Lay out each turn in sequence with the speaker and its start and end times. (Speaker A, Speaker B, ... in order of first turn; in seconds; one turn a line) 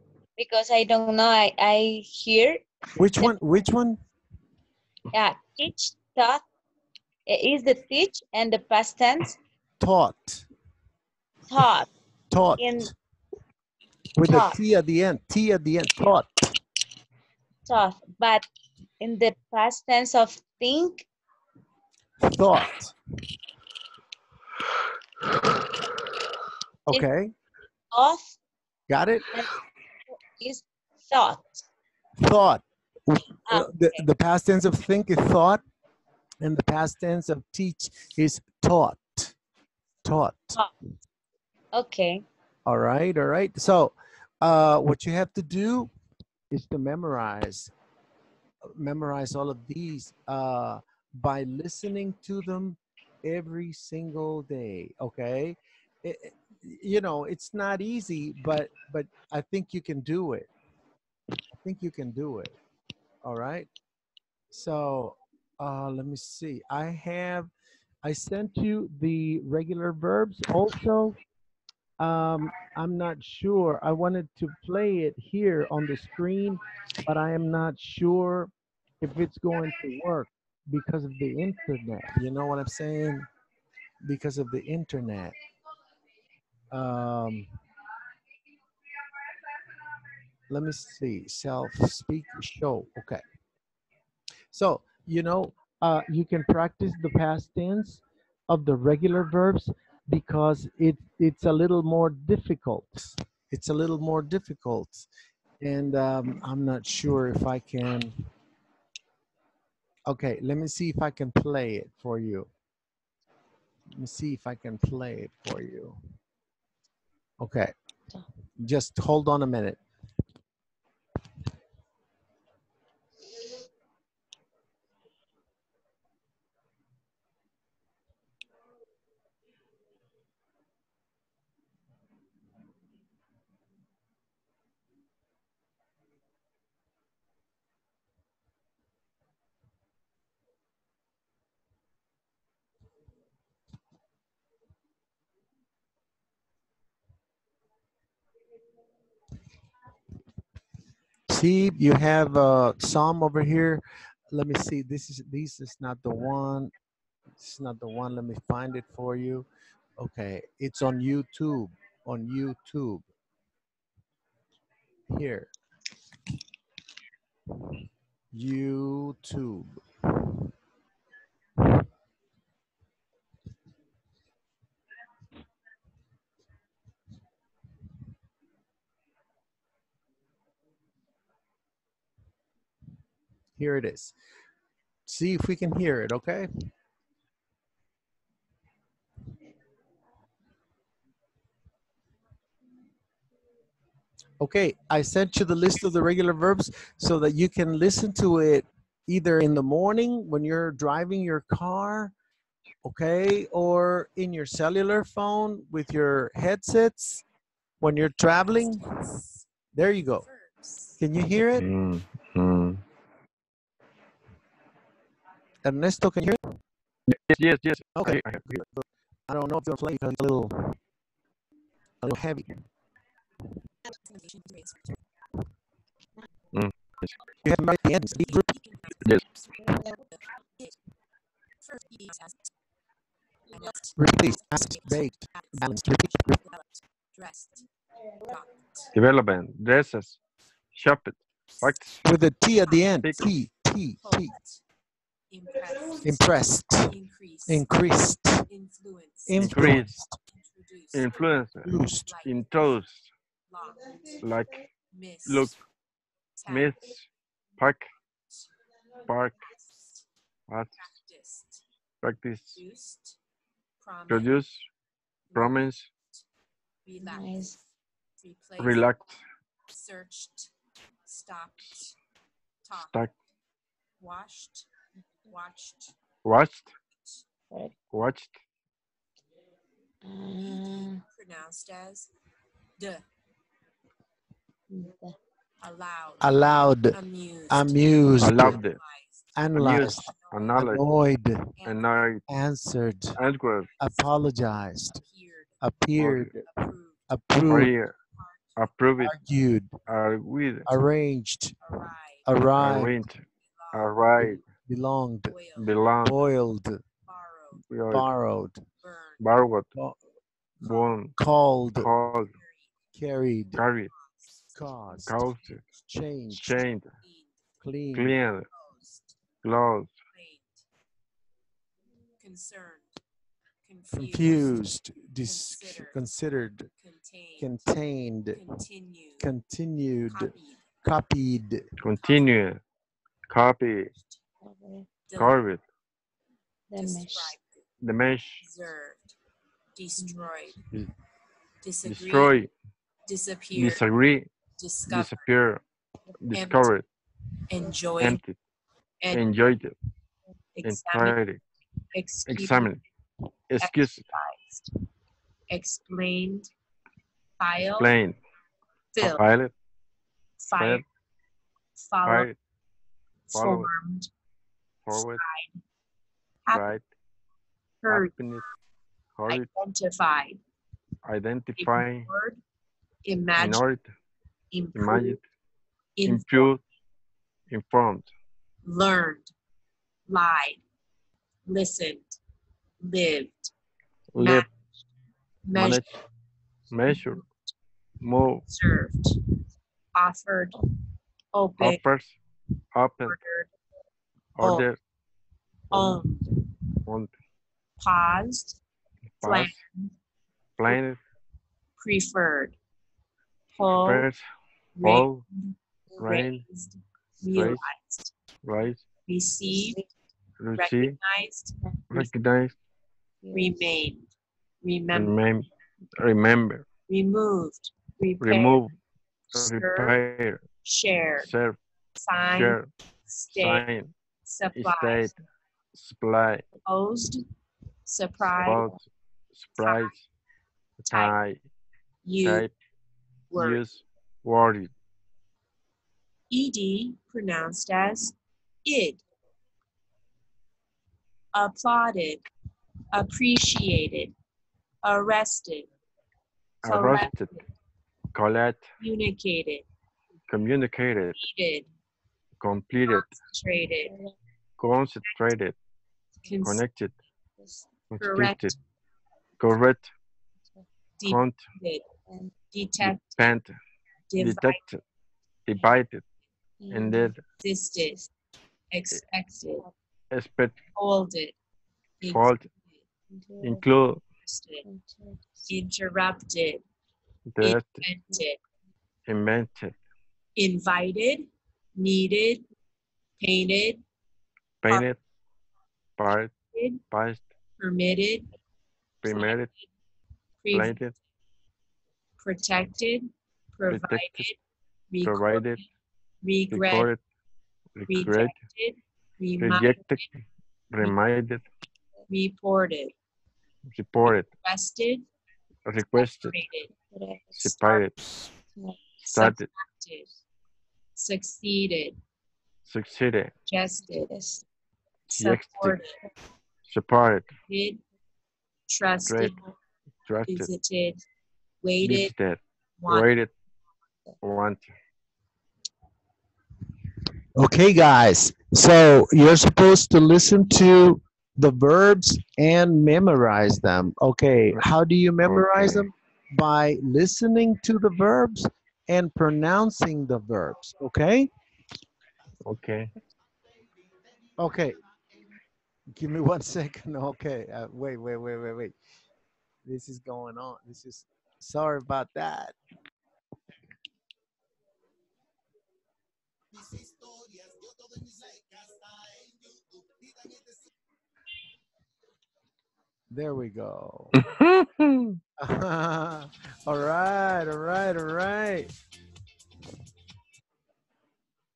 Speaker A: 0.3-2.6
Speaker B: 3.0-4.0
Speaker A: 5.1-6.4
Speaker A: 7.2-9.4
Speaker B: 9.8-10.4
Speaker A: 11.5-11.9
Speaker B: 12.3-12.9
Speaker A: 12.6-12.9
Speaker B: 14.2-16.5
Speaker A: 14.3-14.5
Speaker A: 17.6-18.4
Speaker A: 19.0-21.1
Speaker B: 22.2-22.9
Speaker B: 26.9-27.3
Speaker A: 27.9-28.3
Speaker B: 28.9-29.3
Speaker A: 30.4-31.6
Speaker B: 32.2-35.6
Speaker A: 33.5-34.0
Speaker B: 36.4-39.3
Speaker B: 40.0-40.6
Speaker A: 41.7-42.2
Speaker B: 42.6-45.9
Speaker B: 46.5-47.7
Speaker B: 48.7-60.5
Speaker B: 61.5-62.5
Speaker B: 63.2-63.7
Speaker B: 64.5-67.5
Speaker B: 68.0-71.2
Speaker B: 72.0-83.3
Speaker B: 84.0-85.3
Speaker B: 86.7-87.5
Speaker B: 90.5-93.2
Speaker B: 94.5-105.0
Speaker B: 105.6-108.2
Speaker B: 110.1-112.5
Speaker B: 113.9-116.0
Speaker B: 117.4-117.7
Speaker B: 118.6-119.8
Speaker B: 151.3-156.7
Speaker B: 157.4-159.5
Speaker B: 160.0-163.0
Speaker B: 165.1-165.5
Speaker B: 168.3-169.8
Speaker B: 183.6-184.1
Speaker B: 185.1-186.5
Speaker B: 194.4-202.1
Speaker B: 202.8-207.2
Speaker B: 207.8-208.9
Speaker C: 208.3-211.0
Speaker B: 209.7-210.2
Speaker B: 211.0-211.7
Speaker D: 211.5-212.8
Speaker B: 215.6-216.4
Speaker D: 217.1-218.6
Speaker B: 217.9-220.7
Speaker B: 222.0-222.5
Speaker C: 223.9-225.0
Speaker D: 226.5-227.1
Speaker B: 227.4-228.5
Speaker C: 228.2-230.8
Speaker C: 231.6-232.5
Speaker C: 233.5-237.7
Speaker B: 233.9-236.4
Speaker C: 238.2-238.9
Speaker D: 238.9-240.2
Speaker D: 240.7-242.0
Speaker B: 242.0-244.3
Speaker C: 242.6-243.3
Speaker C: 244.0-244.6
Speaker C: 245.3-247.7
Speaker B: 246.0-246.9
Speaker B: 247.5-248.4
Speaker C: 248.5-249.8
Speaker B: 249.3-250.2
Speaker D: 249.4-250.0
Speaker C: 250.3-252.8
Speaker D: 250.9-251.7
Speaker B: 251.6-252.1
Speaker D: 252.2-253.0
Speaker C: 253.5-254.2
Speaker D: 254.2-254.6
Speaker C: 254.9-255.6
Speaker D: 255.2-255.5
Speaker C: 256.4-256.9
Speaker D: 256.5-257.1
Speaker D: 257.6-257.9
Speaker D: 259.1-259.3
Speaker C: 259.4-260.0
Speaker D: 260.5-260.8
Speaker C: 260.8-261.6
Speaker D: 262.0-262.6
Speaker C: 262.6-263.2
Speaker C: 263.8-264.4
Speaker D: 264.1-264.6
Speaker C: 265.3-266.2
Speaker D: 265.3-265.9
Speaker C: 266.8-267.6
Speaker A: 267.0-267.5
Speaker C: 268.2-268.9
Speaker D: 268.6-269.2
Speaker C: 269.7-270.5
Speaker C: 271.1-272.0
Speaker C: 272.6-273.1
Speaker D: 272.8-273.1
Speaker C: 274.0-274.7
Speaker C: 275.3-275.9
Speaker D: 276.2-276.7
Speaker C: 276.9-277.2
Speaker D: 277.9-278.3
Speaker A: 280.0-281.0
Speaker C: 280.4-282.1
Speaker C: 282.8-283.0
Speaker A: 284.7-285.1
Speaker C: 285.6-289.4
Speaker B: 286.2-287.0
Speaker B: 287.5-288.6
Speaker D: 288.2-288.8
Speaker B: 289.4-291.5
Speaker D: 289.5-290.8
Speaker C: 290.1-290.6
Speaker C: 291.6-291.9
Speaker D: 291.6-292.2
Speaker B: 292.3-293.2
Speaker D: 293.2-293.7
Speaker B: 293.8-295.0
Speaker C: 294.9-295.6
Speaker B: 295.6-297.7
Speaker D: 296.0-296.3
Speaker C: 296.4-297.0
Speaker D: 297.5-298.0
Speaker C: 298.1-298.7
Speaker D: 298.6-299.1
Speaker B: 299.0-299.7
Speaker D: 299.9-300.7
Speaker B: 300.6-301.6
Speaker C: 301.6-302.3
Speaker B: 302.2-303.0
Speaker D: 302.6-303.2
Speaker C: 303.4-304.0
Speaker D: 303.7-304.4
Speaker B: 304.2-305.4
Speaker C: 305.3-305.8
Speaker D: 305.6-306.1
Speaker B: 306.0-306.8
Speaker C: 307.1-307.6
Speaker D: 307.7-308.1
Speaker B: 307.9-308.6
Speaker C: 308.8-309.2
Speaker D: 309.2-309.6
Speaker C: 310.6-311.0
Speaker D: 310.6-311.1
Speaker B: 311.1-311.9
Speaker D: 311.7-312.3
Speaker C: 312.2-312.7
Speaker B: 312.9-313.6
Speaker C: 313.5-315.8
Speaker D: 313.6-313.9
Speaker B: 314.5-315.2
Speaker D: 315.1-315.6
Speaker B: 315.9-316.6
Speaker D: 316.4-316.9
Speaker C: 316.4-317.4
Speaker B: 317.6-318.1
Speaker D: 317.9-318.5
Speaker C: 318.5-319.1
Speaker D: 319.4-319.9
Speaker C: 320.1-320.6
Speaker C: 322.2-322.9
Speaker C: 323.6-324.7
Speaker B: 323.9-326.7
Speaker C: 325.2-326.0
Speaker C: 326.7-327.7
Speaker B: 327.4-328.4
Speaker C: 328.3-329.3
Speaker B: 329.2-331.6
Speaker C: 330.1-330.6
Speaker D: 331.8-332.6
Speaker C: 332.0-332.4
Speaker D: 333.3-333.9
Speaker C: 333.9-334.2
Speaker A: 334.4-334.9
Speaker C: 335.1-335.4
Speaker D: 335.1-335.6
Speaker A: 336.7-337.3
Speaker C: 336.7-337.7
Speaker D: 337.8-338.4
Speaker C: 338.4-339.1
Speaker C: 339.7-340.6
Speaker A: 340.0-340.3
Speaker C: 341.6-342.4
Speaker D: 341.8-342.5
Speaker C: 343.1-343.9
Speaker D: 343.5-344.3
Speaker C: 344.6-345.3
Speaker D: 344.9-345.6
Speaker D: 346.2-346.9
Speaker C: 346.3-346.7
Speaker C: 347.5-348.2
Speaker D: 348.0-348.4
Speaker C: 349.0-349.5
Speaker D: 349.1-349.7
Speaker C: 350.5-351.2
Speaker D: 350.6-351.4
Speaker C: 351.9-352.8
Speaker D: 352.3-352.8
Speaker D: 353.5-354.0
Speaker C: 353.6-354.7
Speaker C: 355.5-356.5
Speaker C: 357.4-357.9
Speaker D: 357.8-358.2
Speaker C: 358.9-359.2
Speaker D: 359.0-359.5
Speaker C: 360.4-360.8
Speaker D: 360.6-360.8
Speaker C: 361.8-362.3
Speaker D: 362.0-362.3
Speaker C: 363.3-364.1
Speaker D: 363.3-363.7
Speaker D: 364.9-365.2
Speaker C: 364.9-365.6
Speaker D: 366.5-366.8
Speaker C: 367.8-368.4
Speaker D: 367.9-368.4
Speaker D: 369.2-369.5
Speaker C: 369.3-370.4
Speaker D: 371.1-372.1
Speaker C: 371.6-372.4
Speaker C: 373.0-373.6
Speaker D: 373.4-373.9
Speaker C: 374.5-375.2
Speaker D: 374.7-375.2
Speaker C: 376.0-376.5
Speaker D: 376.1-376.6
Speaker D: 377.5-378.1
Speaker C: 378.6-379.3
Speaker C: 380.1-380.6
Speaker C: 381.4-382.2
Speaker C: 382.8-383.5
Speaker D: 384.1-384.4
Speaker C: 384.2-384.5
Speaker C: 385.4-386.0
Speaker D: 385.6-385.9
Speaker D: 386.7-387.2
Speaker C: 386.9-387.2
Speaker D: 388.0-388.4
Speaker C: 388.5-389.2
Speaker C: 389.9-390.6
Speaker C: 391.3-391.8
Speaker D: 391.6-392.1
Speaker D: 392.7-393.2
Speaker C: 393.1-393.5
Speaker D: 394.4-394.8
Speaker D: 395.7-396.0
Speaker C: 395.7-396.2
Speaker D: 396.9-397.1
Speaker C: 397.8-398.6
Speaker D: 399.2-399.5
Speaker C: 399.2-399.9
Speaker D: 400.6-401.0
Speaker C: 401.8-402.6
Speaker C: 403.5-404.1
Speaker D: 403.8-404.2
Speaker C: 404.8-408.1
Speaker D: 404.8-405.2
Speaker D: 406.0-406.4
Speaker D: 407.3-407.6
Speaker D: 408.4-408.8
Speaker C: 409.1-409.8
Speaker D: 410.4-411.0
Speaker C: 410.6-411.5
Speaker D: 411.9-412.5
Speaker A: 413.2-413.6
Speaker C: 413.3-414.1
Speaker C: 414.6-415.1
Speaker D: 414.9-415.5
Speaker D: 416.0-416.6
Speaker C: 416.9-418.6
Speaker D: 418.2-418.7
Speaker C: 419.3-419.9
Speaker D: 419.3-420.4
Speaker C: 420.6-421.3
Speaker D: 421.2-421.6
Speaker C: 421.9-423.6
Speaker D: 422.2-422.7
Speaker D: 423.3-423.9
Speaker C: 424.2-425.1
Speaker D: 424.6-425.1
Speaker D: 425.7-426.4
Speaker C: 426.6-427.2
Speaker C: 427.9-428.7
Speaker D: 428.3-428.8
Speaker D: 429.3-430.0
Speaker C: 429.6-429.9
Speaker D: 430.8-431.4
Speaker C: 430.9-431.2
Speaker C: 432.0-432.5
Speaker D: 432.2-432.5
Speaker C: 433.3-433.6
Speaker D: 433.3-434.7
Speaker C: 436.3-439.0
Speaker C: 441.3-442.2
Speaker C: 442.9-444.1
Speaker C: 444.8-445.7
Speaker D: 446.6-447.3
Speaker C: 446.6-447.4
Speaker D: 448.1-448.6
Speaker C: 448.8-449.6
Speaker D: 450.3-451.1
Speaker C: 451.2-451.7
Speaker D: 452.4-453.1
Speaker C: 452.9-453.9
Speaker A: 453.9-454.1
Speaker D: 454.6-455.5
Speaker C: 456.2-456.6
Speaker D: 456.4-456.9
Speaker D: 457.9-458.5
Speaker C: 458.0-458.6
Speaker D: 459.4-459.9
Speaker C: 461.0-461.8
Speaker D: 461.1-461.4
Speaker A: 462.1-462.3
Speaker C: 462.5-463.4
Speaker D: 462.8-463.6
Speaker C: 464.1-464.6
Speaker D: 464.2-464.8
Speaker D: 465.5-466.0
Speaker A: 466.6-467.1
Speaker D: 466.7-467.2
Speaker C: 467.4-468.0
Speaker C: 468.7-469.6
Speaker D: 470.1-470.6
Speaker C: 470.7-471.4
Speaker C: 472.0-472.8
Speaker D: 472.1-472.4
Speaker A: 473.1-473.6
Speaker D: 473.4-474.0
Speaker C: 474.2-474.6
Speaker A: 474.6-475.5
Speaker C: 475.5-476.6
Speaker D: 477.3-477.8
Speaker C: 477.4-478.4
Speaker D: 479.1-479.8
Speaker C: 480.4-482.4
Speaker C: 483.2-483.8
Speaker D: 484.6-485.0
Speaker D: 486.0-486.3
Speaker C: 486.5-486.8
Speaker D: 486.9-487.2
Speaker C: 487.6-488.3
Speaker D: 489.0-489.5
Speaker C: 489.0-489.6
Speaker C: 490.4-490.9
Speaker D: 490.5-490.9
Speaker C: 492.2-494.4
Speaker D: 493.7-494.2
Speaker C: 494.9-495.7
Speaker D: 495.0-495.6
Speaker C: 496.2-496.9
Speaker D: 496.5-497.0
Speaker D: 497.8-498.3
Speaker C: 497.9-500.1
Speaker D: 499.4-500.0
Speaker D: 500.7-501.4
Speaker C: 502.1-502.9
Speaker D: 503.7-504.3
Speaker C: 504.1-505.1
Speaker D: 505.6-506.4
Speaker C: 505.9-506.7
Speaker A: 506.9-507.5
Speaker D: 507.4-507.9
Speaker C: 509.0-510.1
Speaker D: 509.1-509.5
Speaker C: 510.9-512.0
Speaker D: 512.6-513.3
Speaker C: 513.5-514.1
Speaker A: 513.9-514.4
Speaker C: 515.1-516.0
Speaker D: 515.1-515.8
Speaker D: 516.7-517.3
Speaker C: 517.5-517.8
Speaker C: 518.7-519.5
Speaker D: 519.1-519.3
Speaker D: 520.1-520.5
Speaker C: 520.3-521.0
Speaker C: 521.6-522.1
Speaker D: 521.8-523.3
Speaker C: 522.8-523.1
Speaker D: 524.2-524.6
Speaker B: 527.4-541.3
Speaker D: 535.2-535.9
Speaker D: 542.4-542.9
Speaker B: 544.4-544.8
Speaker B: 545.9-548.7
Speaker B: 549.6-552.5
Speaker B: 556.5-560.5
Speaker B: 563.1-564.1
Speaker D: 564.1-565.2
Speaker B: 565.4-568.7